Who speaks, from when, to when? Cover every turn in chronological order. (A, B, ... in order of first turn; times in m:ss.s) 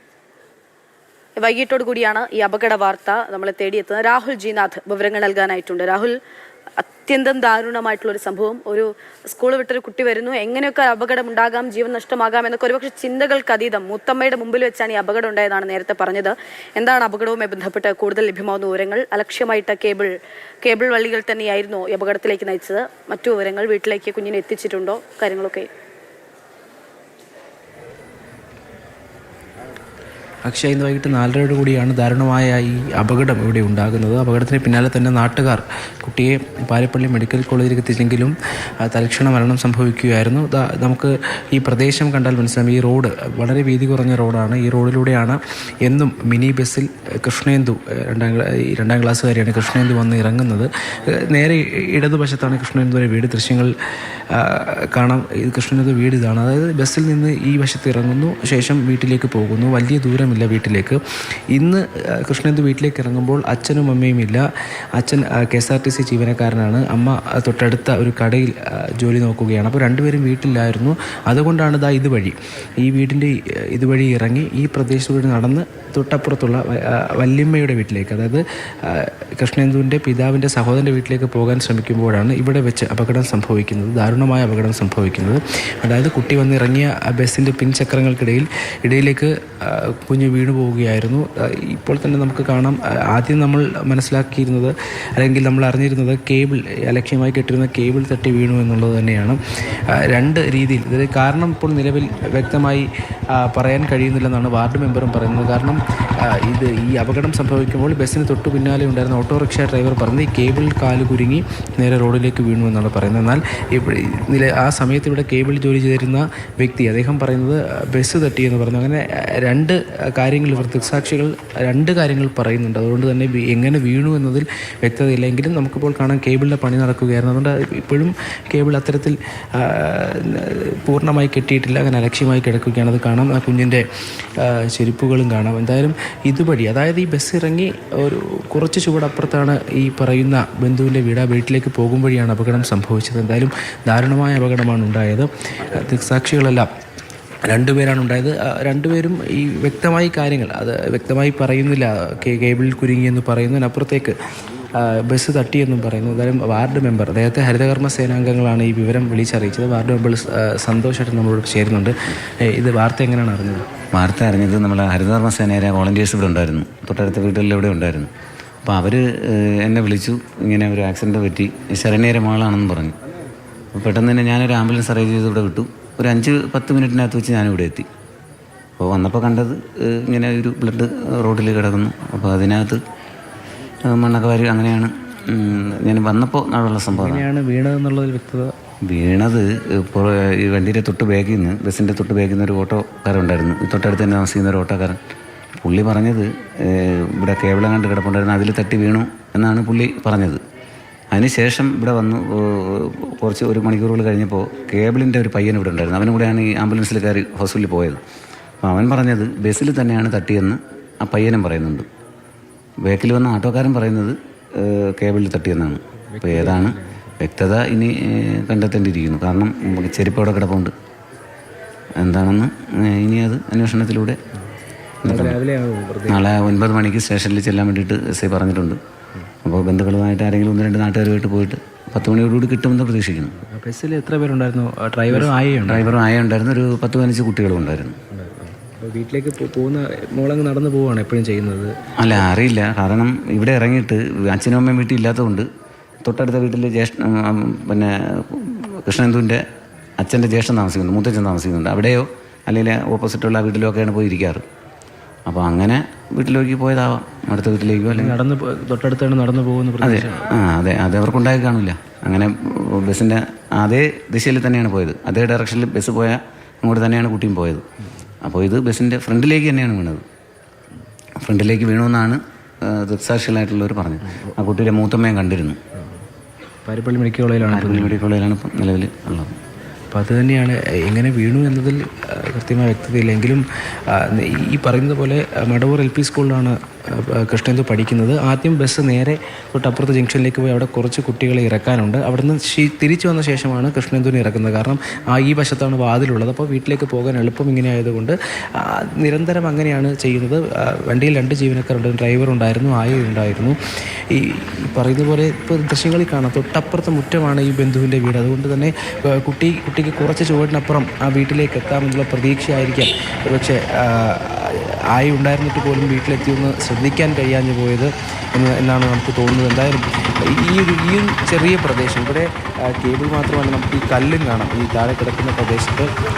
0:01.4-0:06.2 A
0:06.8-0:20.1 A
0:20.6-0:25.7 A
0:30.5-0:53.7 B
0:54.3-1:01.0 B
1:01.5-1:04.4 B
1:05.0-1:42.9 B
1:43.4-2:13.8 B
2:14.4-2:26.7 B
2:27.5-2:34.2 B
2:34.8-2:43.7 B
2:43.9-2:48.1 C
2:48.6-2:53.0 C
2:53.7-2:57.9 C
2:58.8-3:02.8 C
3:03.9-3:07.3 C
3:06.9-3:08.5 B
3:08.9-3:15.0 C
3:15.6-3:20.4 C
3:21.1-3:28.0 C
3:28.6-3:31.9 C
3:32.8-3:40.7 C
3:36.1-3:37.1 B
3:42.0-3:44.2 C
3:45.0-3:45.4 C
3:45.0-3:46.6 B
3:46.1-3:48.8 C
3:49.4-3:53.4 C
3:53.4-3:56.0 B
3:55.1-3:58.0 C
3:58.1-4:01.7 B
4:02.0-4:05.5 C
4:06.0-4:09.4 C
4:10.0-4:14.4 C
4:15.3-4:18.2 C
4:17.9-4:20.3 B
4:19.8-4:27.6 C
4:28.2-4:30.0 C
4:31.2-4:35.6 C
4:36.7-4:38.0 B
4:37.5-4:39.4 C
4:39.9-5:03.6 B
5:04.1-5:25.9 B